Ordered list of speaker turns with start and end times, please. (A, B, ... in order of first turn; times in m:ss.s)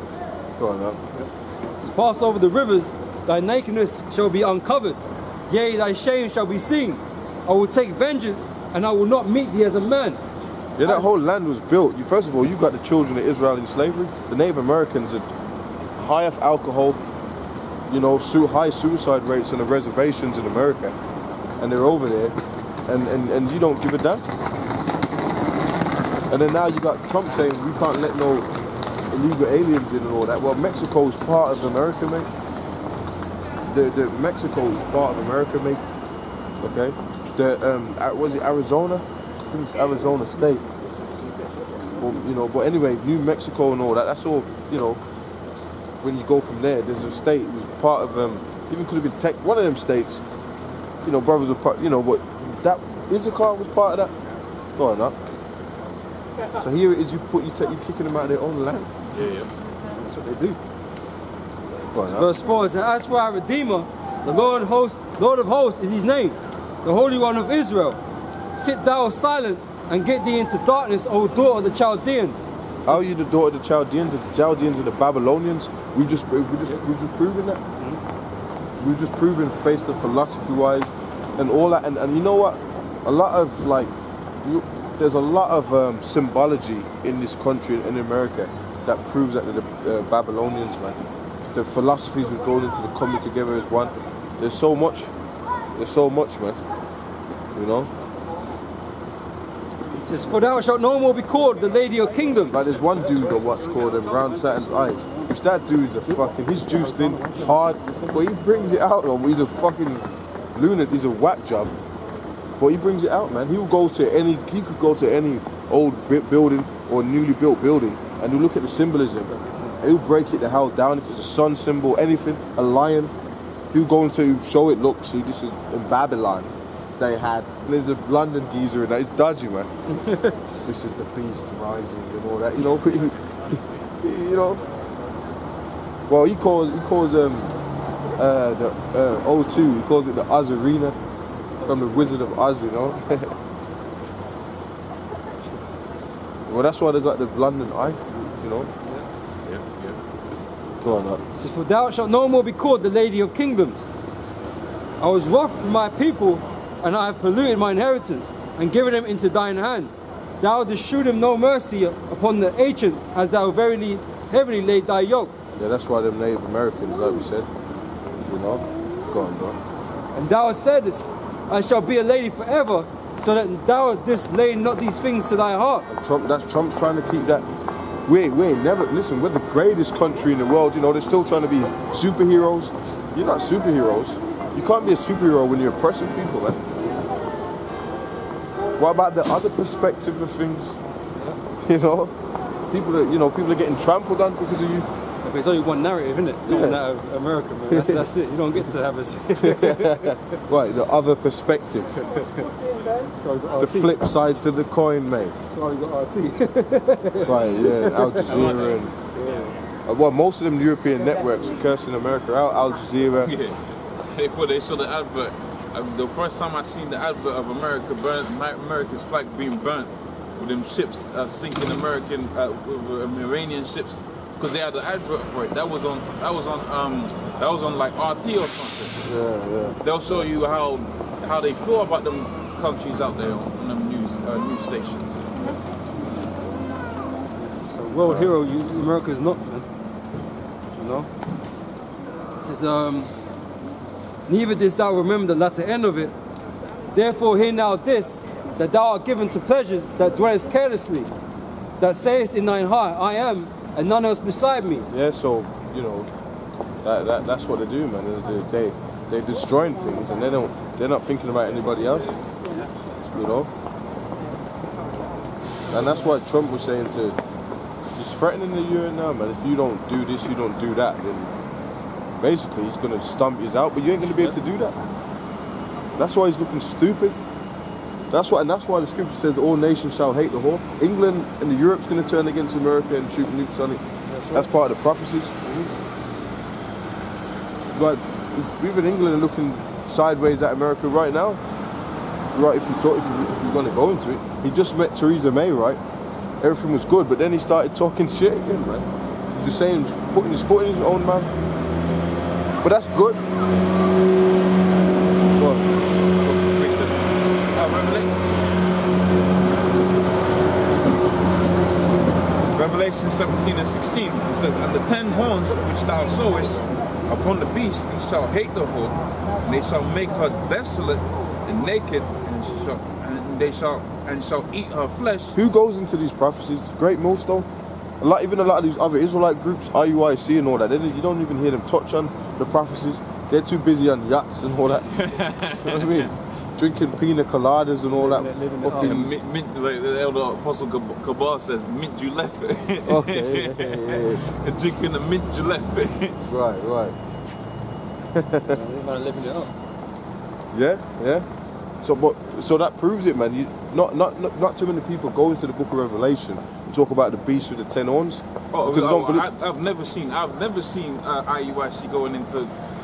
0:00.6-0:01.0 A
0:01.8-0:10.2 B
0:10.8-0:15.3 A
0:16.0-0:17.0 A
0:17.9-0:21.0 A
0:21.6-0:24.2 A
0:26.3-0:28.5 A
0:29.1-0:32.3 A
0:33.7-0:35.9 A
0:36.6-0:40.7 A
0:41.9-0:45.0 A
0:46.0-0:50.2 A
0:51.0-0:54.1 A
0:54.8-0:55.2 A
0:56.6-0:59.0 A
0:59.1-0:59.5 C
1:00.0-1:00.6 B
1:01.9-1:02.3 A
1:02.0-1:08.0 B
1:08.6-1:12.5 B
1:12.9-1:17.6 A
1:18.8-1:23.9 A
1:24.4-1:35.1 A
1:35.8-1:36.6 A
1:37.5-1:37.9 A
1:40.0-1:42.6 B
1:42.5-1:51.8 A
1:46.8-1:48.0 B
1:52.6-2:03.1 A
1:59.3-1:59.8 B
2:03.7-2:09.7 A
2:09.9-2:10.4 B
2:10.6-2:14.6 A
2:16.1-2:17.5 A
2:18.2-2:21.0 A
2:21.6-2:22.2 B
2:21.7-2:23.3 A
2:26.5-2:28.7 A
2:29.5-2:30.0 C
2:30.8-2:31.2 A
2:31.4-2:33.9 B
2:35.0-2:45.4 B
2:45.6-2:47.5 A
2:48.3-2:49.6 A
2:50.1-2:55.9 B
2:55.9-2:57.5 A
2:58.1-3:06.6 A
3:08.8-3:10.8 A
3:11.6-3:12.2 A
3:12.7-3:14.9 A
3:15.2-3:20.4 B
3:16.5-3:16.8 A
3:17.7-3:18.1 A
3:19.4-3:22.0 A
3:22.1-3:22.5 B
3:23.2-3:24.0 B
3:23.6-3:25.4 A
3:25.5-3:28.5 B
3:27.2-3:28.9 A
3:28.2-3:28.8 C
3:29.2-3:29.6 B
3:29.9-3:33.3 A
3:33.2-3:33.6 C
3:34.1-3:49.0 C
3:49.0-3:50.3 A
3:49.8-3:55.6 C
3:57.4-3:59.7 B
3:58.1-3:58.3 A
4:00.8-4:01.1 B
4:02.4-4:03.1 B
4:04.3-4:06.2 B
4:06.9-4:11.1 B
4:11.8-4:14.9 B
4:14.9-4:16.1 A
4:16.8-4:22.2 A
4:23.1-4:23.5 A
4:25.7-4:27.2 A
4:28.0-4:31.3 A
4:32.2-4:34.8 A
4:36.0-4:37.2 A
4:38.1-4:45.3 A
4:44.1-4:44.5 B
4:45.4-4:45.7 B
4:47.7-4:51.4 A
4:52.3-4:55.8 A
4:56.4-5:01.3 A
5:02.6-5:03.2 A
5:05.4-5:05.7 A
5:06.2-5:08.2 C
5:12.5-5:25.4 C
5:25.4-5:27.5 A
5:28.0-5:39.1 A
5:34.9-5:36.1 C
5:37.9-5:39.1 B
5:38.7-5:46.2 C
5:42.9-5:44.2 A
5:46.3-5:47.0 A
5:48.1-5:48.6 A
5:48.5-5:49.5 B
5:50.5-5:51.3 A
5:51.8-5:59.3 A
5:58.5-6:02.5 C